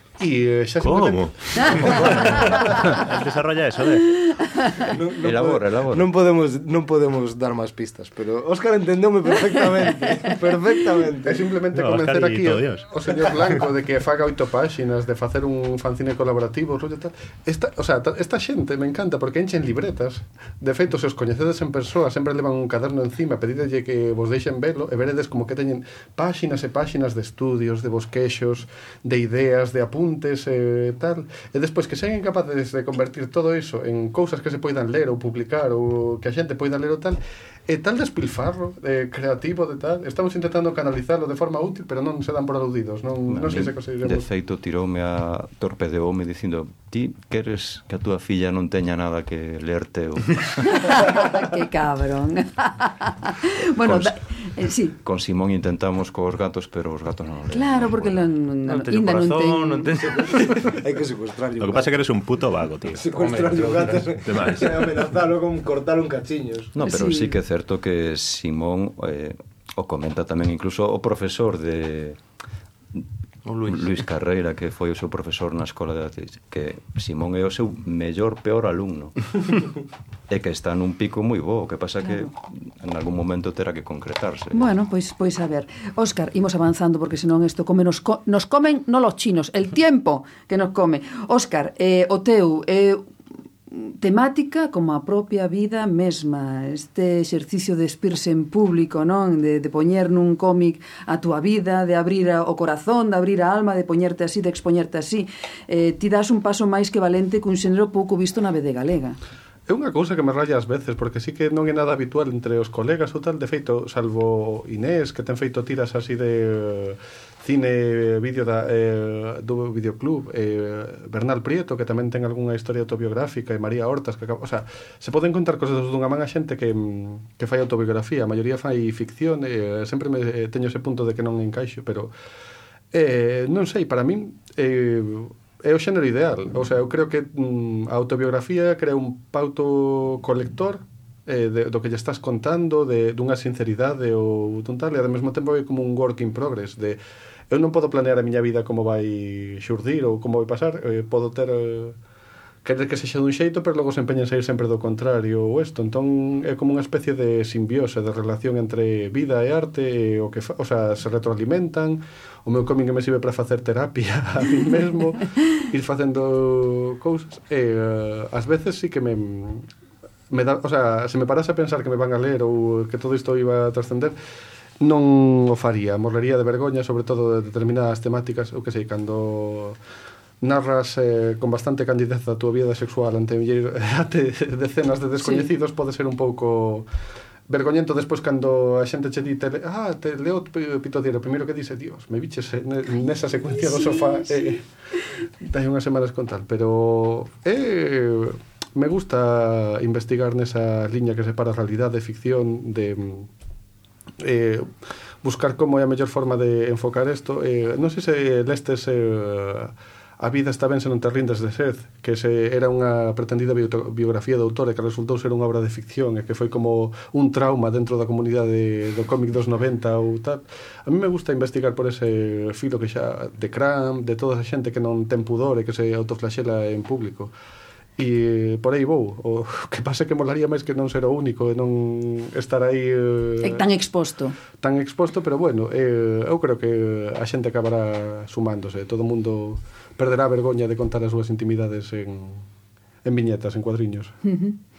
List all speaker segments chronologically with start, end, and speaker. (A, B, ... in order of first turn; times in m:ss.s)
0:00.2-0:02.6 A
0:00.8-0:04.3 B
0:04.2-0:04.9 C
0:04.9-0:11.4 D
0:05.2-0:06.1 E
0:11.2-0:44.2 A
0:11.7-0:13.4 B
0:43.3-0:51.1 E
0:50.7-0:55.0 C
0:55.0-0:58.3 E
0:57.5-0:59.9 C
0:58.6-1:00.7 F
1:00.0-1:02.0 D
1:01.6-1:03.0 B
1:02.9-1:06.7 D
1:03.1-1:04.1 F
1:04.2-1:04.9 B
1:06.7-1:12.2 E
1:06.8-1:07.4 C
1:13.4-1:14.0 F
1:13.6-1:19.6 E
1:20.3-1:24.8 E
1:22.0-1:22.3 C
1:24.5-1:33.0 C
1:33.7-1:49.2 C
1:49.7-2:12.1 A
2:12.9-2:27.0 A
2:27.5-2:32.0 A
2:32.6-2:49.6 A
2:50.3-2:54.1 A
2:54.8-2:59.8 A
3:00.4-3:06.8 A
3:05.2-3:05.5 C
3:07.5-3:14.6 A
3:13.7-3:14.5 C
3:15.4-3:23.3 A
3:24.2-3:24.7 A
3:25.2-3:47.3 A
3:48.0-3:53.6 A
3:53.4-3:54.4 C
3:54.6-4:02.4 A
4:03.0-4:04.1 A
4:04.2-4:04.6 C